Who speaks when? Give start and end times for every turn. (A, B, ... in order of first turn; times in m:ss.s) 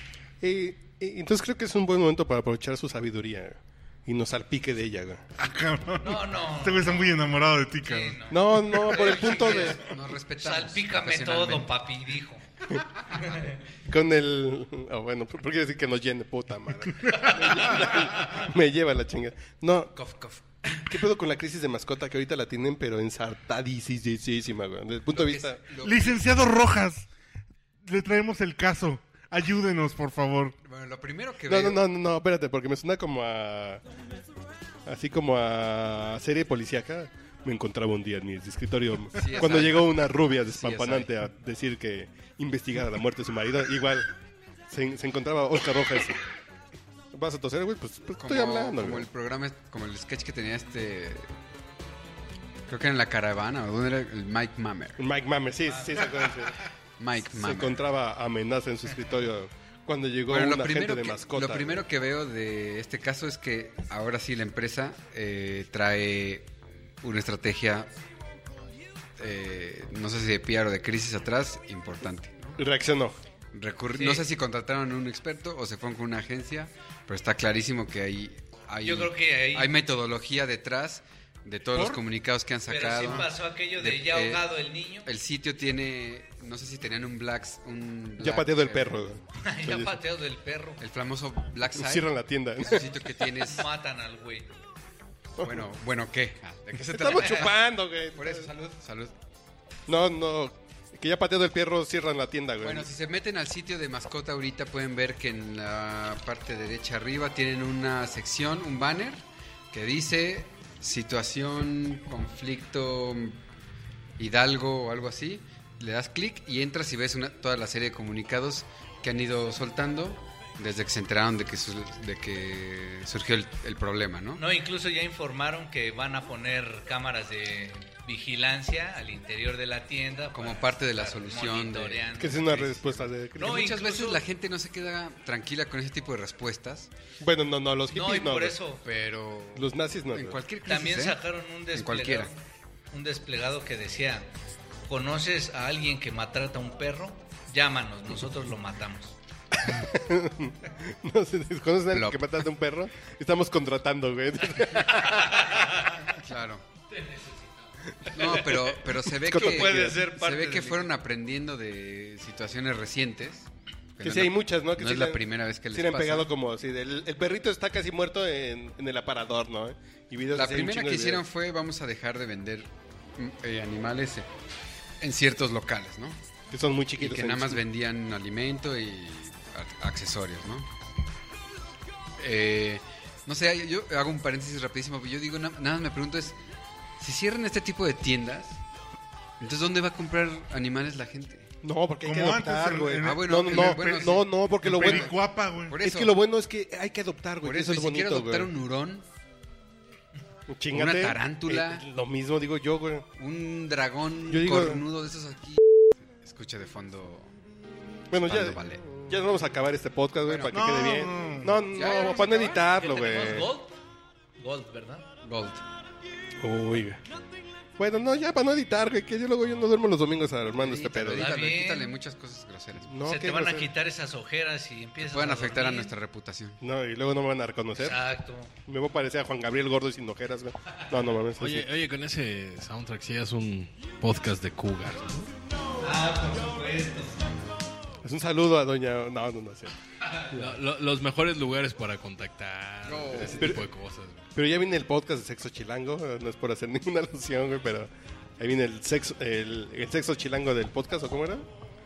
0:00.4-0:05.2 A
0:05.4-0:08.2 B
0:06.0-0:07.2 C
0:07.8-0:09.8 C
0:08.3-0:09.8 A
0:09.1-0:11.7 D
0:10.4-0:12.4 C
0:13.2-0:13.5 C
0:13.9-0:19.9 A
0:20.0-0:20.9 D
0:20.9-0:25.6 A
0:25.1-0:26.4 D
0:25.8-0:27.1 B
0:27.8-0:30.6 B
0:30.6-0:31.8 D
0:31.5-0:33.8 A
0:34.9-0:44.1 A
0:39.1-0:41.1 D
0:44.7-0:46.2 A
0:47.1-0:49.1 A
0:48.2-0:51.3 D
0:52.7-0:55.0 D
0:55.0-0:56.6 A
0:55.6-0:56.2 C
0:57.0-0:57.8 D
0:57.3-1:01.8 A
1:00.3-1:06.5 D
1:07.0-1:07.9 D
1:09.2-1:12.6 D
1:12.6-1:13.2 A
1:13.5-1:24.4 D
1:13.9-1:14.2 C
1:18.8-1:19.7 C
1:21.8-1:22.0 B
1:22.7-1:25.1 C
1:25.0-1:29.1 D
1:28.2-1:29.9 A
1:29.4-1:30.8 C
1:30.8-1:33.7 D
1:31.7-1:32.9 A
1:33.4-1:34.6 C
1:35.4-1:35.6 A
1:35.4-1:37.5 D
1:36.8-1:38.5 A
1:38.1-1:39.1 D
1:39.9-1:42.9 A
1:42.6-1:53.4 D
1:54.2-2:04.4 D
2:04.4-2:14.2 C
2:10.3-2:12.1 D
2:12.2-2:13.6 A
2:13.4-2:16.9 D
2:17.2-2:18.6 A
2:17.9-2:18.8 C
2:18.8-2:21.2 D
2:19.6-2:20.4 A
2:20.6-2:22.4 C
2:21.7-2:22.3 D
2:22.9-2:24.3 C
2:24.9-2:29.2 C
2:29.6-2:35.6 A
2:31.9-2:32.2 D
2:35.0-2:36.0 C
2:36.1-2:36.6 D
2:36.9-2:37.7 C
2:38.1-2:40.1 A
2:38.1-2:46.3 D
2:39.3-2:40.9 C
2:44.0-2:51.2 A
2:50.3-2:54.3 D
2:55.0-2:56.2 D
2:56.5-2:57.6 A
2:57.0-3:00.7 D
3:02.2-3:06.4 D
3:07.0-3:08.6 D
3:09.4-3:11.5 D
3:11.6-3:15.2 A
3:12.0-3:15.8 B
3:13.0-3:15.2 D
3:15.7-3:16.2 D
3:15.8-3:18.5 A
3:17.4-3:19.0 D
3:20.5-3:23.1 A
3:20.7-3:21.8 D
3:23.2-3:25.6 D
3:24.3-3:24.8 A
3:26.2-3:27.3 D
3:28.1-3:33.5 A
3:28.2-3:28.8 D
3:30.2-3:30.6 D
3:30.5-3:31.6 B
3:31.7-3:32.7 D
3:32.7-3:33.8 C
3:34.4-3:35.0 C
3:35.2-3:35.6 D
3:36.4-3:37.0 A
3:37.8-3:41.3 A
3:40.5-3:42.9 D
3:41.2-3:41.9 C
3:42.8-3:43.7 A
3:43.0-3:45.9 C
3:45.0-3:46.6 D
3:46.6-3:48.0 A
3:47.8-3:48.5 C
3:48.6-3:51.7 A
3:51.4-3:55.3 E
3:55.8-3:57.2 C
3:58.0-3:59.7 A
4:00.3-4:04.3 E
4:02.8-4:03.5 D
4:03.2-4:03.6 A
4:04.3-4:11.4 A